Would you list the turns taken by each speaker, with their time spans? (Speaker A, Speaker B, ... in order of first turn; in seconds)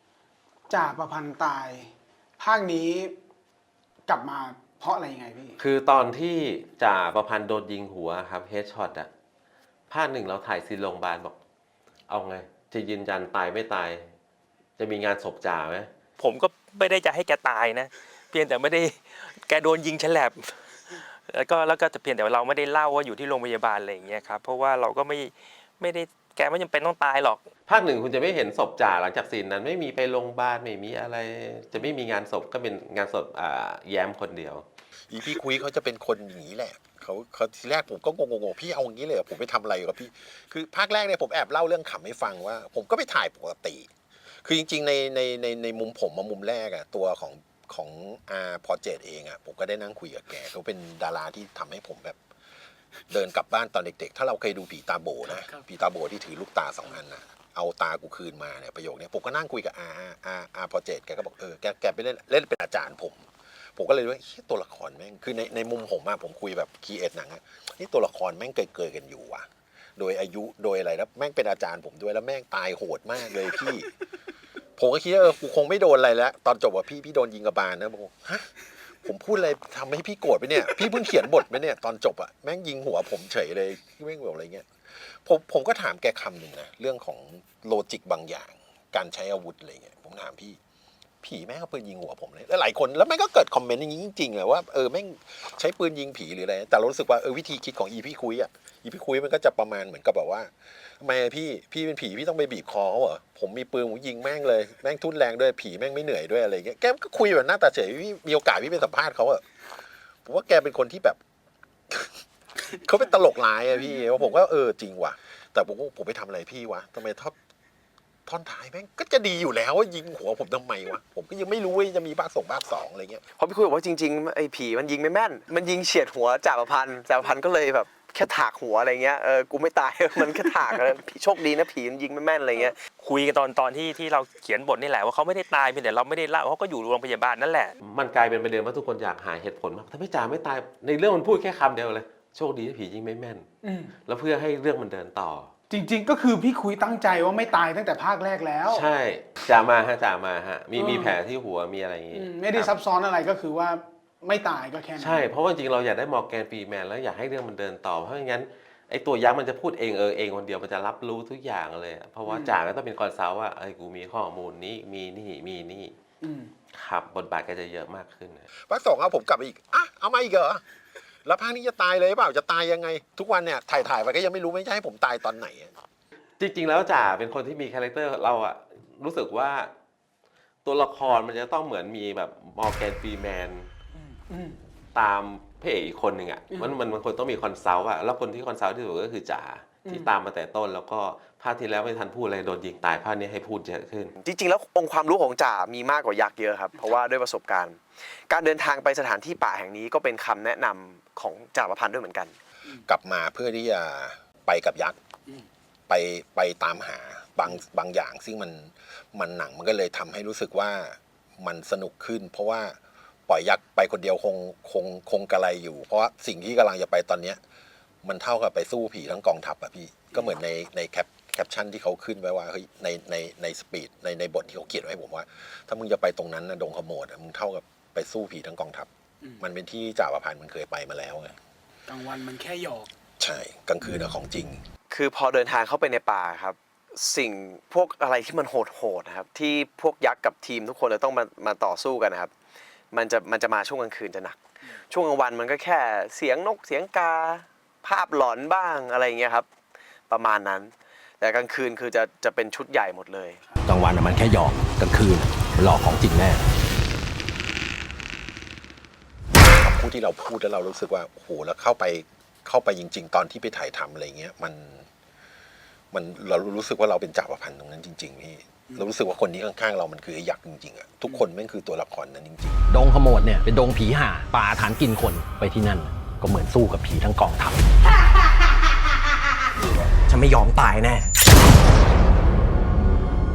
Speaker A: 0.7-3.1, 4.1-5.5, 143.6-143.9, 145.7-148.8, 150.7-151.2, 152.1-155.3, 162.2-162.6, 166.2-166.5, 183.9-184.6, 186.5-186.8, 189.8-190.1, 231.9-232.9
Speaker B: 5.6-9.1, 9.9-11.3, 12.1-14.1, 14.8-15.9, 27.7-34.6, 137.8-143.5, 144.0-145.5, 148.7-152.7, 155.0-165.9, 166.7-168.5, 176.4-179.7, 180.6-183.7, 184.9-194.1
Speaker C: 16.2-27.5, 133.0-137.7
Speaker D: 35.1-43.9, 44.4-52.2, 53.1-73.9, 74.8-90.6, 91.2-109.4, 110.2-111.2, 111.9-117.3, 118.2-123.2, 168.7-170.6, 171.2-175.7, 202.8-205.0, 205.9-217.4, 218.0-228.9, 229.4-231.3, 233.2-234.6, 259.5-264.9, 265.9-272.6
Speaker E: 123.3-132.8, 194.2-202.3, 234.9-242.3, 242.9-249.5, 250.1-253.4
Speaker F: 253.7-256.4, 272.7-277.6, 280.1-281.1